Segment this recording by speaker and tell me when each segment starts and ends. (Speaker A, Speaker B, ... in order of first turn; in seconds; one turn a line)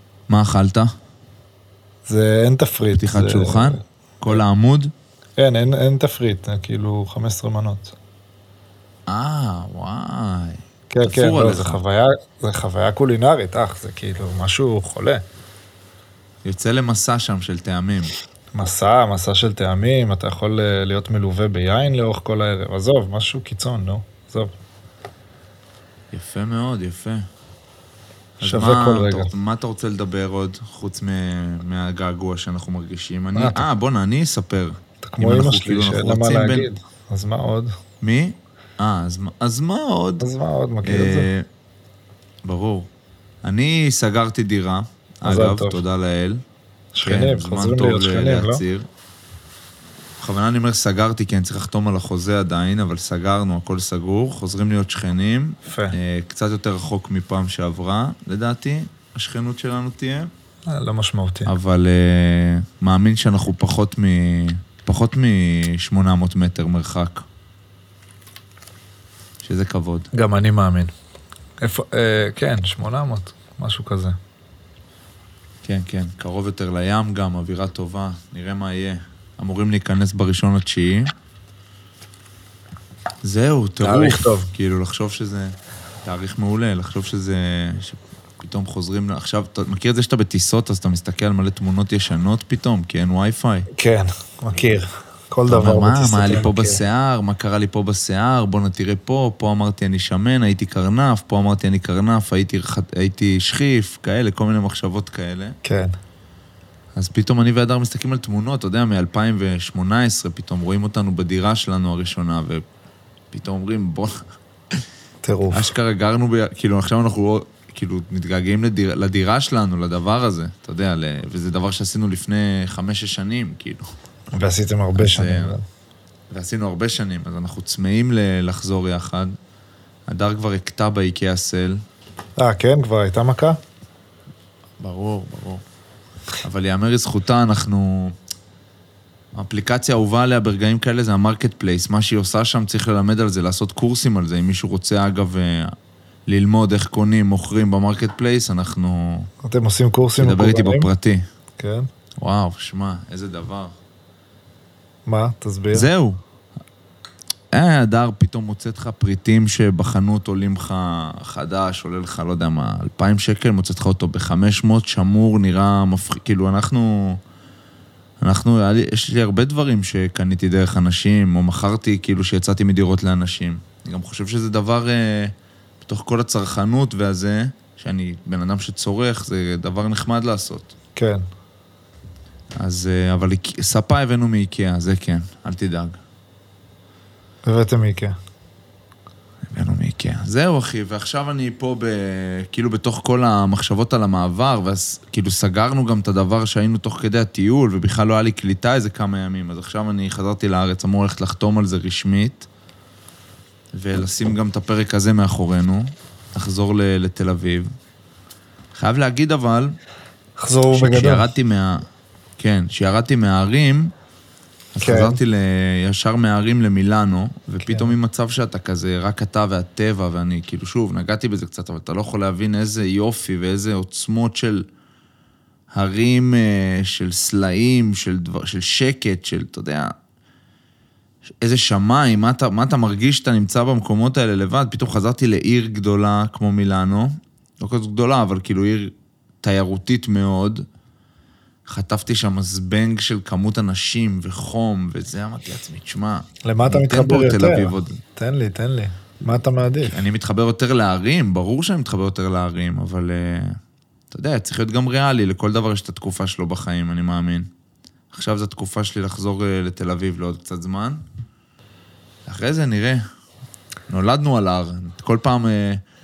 Speaker A: 0.3-0.9
Speaker B: 2.0-4.4
Speaker A: 2.9-4.9
Speaker B: 5.4-7.9
Speaker A: 9.1-11.8
Speaker B: 10.9-15.2
Speaker A: 16.4-18.1
Speaker B: 18.5-24.5
Speaker A: 26.1-27.2
Speaker B: 28.4-29.3
Speaker A: 28.4-36.7
Speaker B: 33.3-33.7
Speaker B: 35.0-37.7
Speaker A: 38.0-40.3
Speaker B: 40.2-41.3
Speaker A: 40.8-41.5
Speaker A: 42.4-42.9
Speaker A: 43.4-46.4
Speaker B: 45.2-45.8
Speaker B: 46.9-48.6
Speaker A: 47.0-48.9
Speaker A: 50.2-60.3
Speaker B: 55.6-56.0
Speaker B: 60.7-61.5
Speaker A: 61.5-67.2
Speaker A: 69.4-70.1
Speaker B: 70.1-70.9
Speaker B: 71.6-74.2
Speaker A: 75.6-81.1
Speaker A: 83.2-93.7
Speaker B: 83.8-84.5
Speaker B: 93.7-96.8
Speaker A: 95.5-105.6
Speaker B: 105.6-105.9
Speaker A: 107.0-112.6
Speaker A: 113.3-114.2
Speaker B: 115.2-115.7
Speaker A: 115.5-123.9
Speaker B: 124.3-125.6
Speaker A: 124.9-125.6
Speaker A: 126.3-129.3
Speaker A: 130.1-131.8
Speaker B: 132.4-133.6
Speaker A: 134.8-135.6
Speaker A: 136.4-138.1
Speaker A: 139.3-145.7
Speaker A: 146.3-149.3
Speaker B: 149.4-150.9
Speaker A: 150.2-151.2
Speaker B: 151.6-151.9
Speaker A: 152.2-153.7
Speaker B: 155.1-155.9
Speaker A: 155.7-156.2
Speaker A: 157.5-167.2
Speaker A: 168.2-180.7
Speaker B: 180.9-181.2
Speaker A: 182.6-186.0
Speaker B: 187.4-188.2
Speaker A: 189.5-202.5
Speaker A: 203.7-207.7
Speaker A: 208.7-209.8
Speaker B: 210.4-211.3
Speaker A: 210.7-211.8
Speaker A: 212.4-213.9
Speaker A: 214.7-224.7
Speaker B: 214.8-215.2
Speaker B: 217.6-217.9
Speaker A: 225.7-229.9
Speaker A: 231.4-240.7
Speaker A: 241.7-248.0
Speaker B: 246.4-250.0
Speaker A: 249.8-253.6
Speaker A: 254.1-257.5
Speaker A: 258.1-261.0
Speaker A: 262.2-263.0
Speaker A: 263.9-265.8